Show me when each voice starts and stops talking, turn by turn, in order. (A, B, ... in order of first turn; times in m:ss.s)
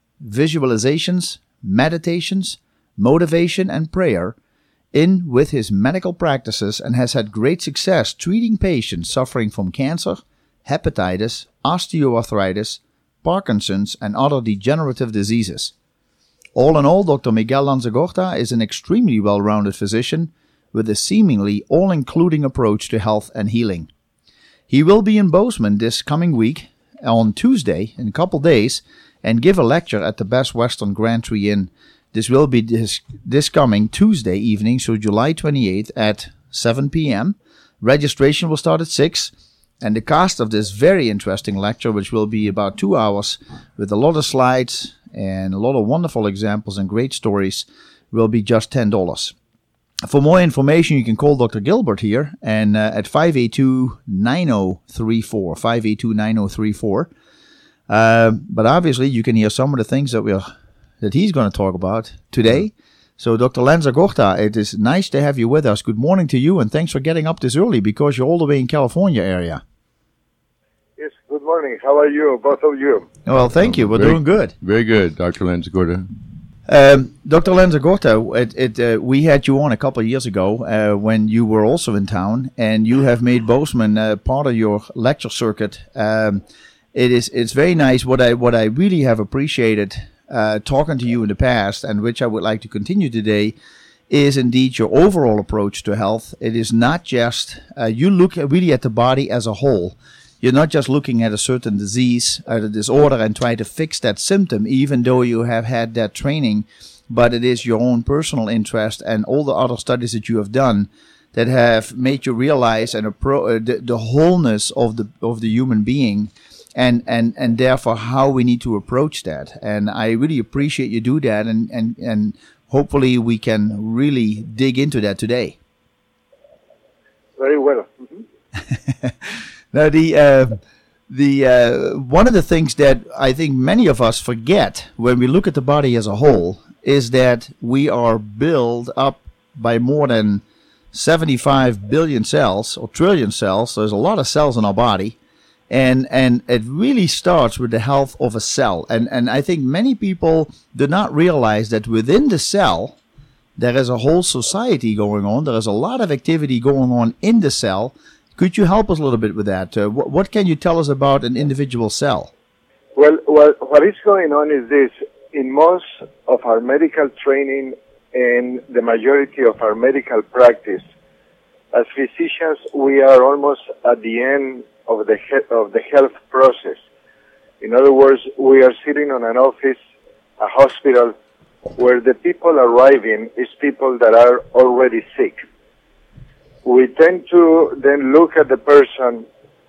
0:00.2-0:04.4 A
0:04.9-0:15.7 A
0:16.6-0:23.9 A
0:24.7-0:49.3 A
0:50.1-0:57.1 A
0:57.9-1:00.5 A
1:01.0-1:09.6 A
1:11.0-1:13.1 B
1:13.3-1:14.5 A
1:13.7-1:16.1 C
1:16.7-1:26.4 A
1:26.9-1:33.6 A
1:34.1-2:05.6 A
2:07.4-2:08.2 B
2:08.7-2:25.2 A
2:25.7-2:33.0 A
2:33.6-2:42.3 A
2:43.0-2:50.8 B
2:51.7-2:56.8 B
2:57.6-2:59.8 B
3:00.4-3:01.2 B
3:01.8-3:05.4 B
3:06.6-3:09.3 B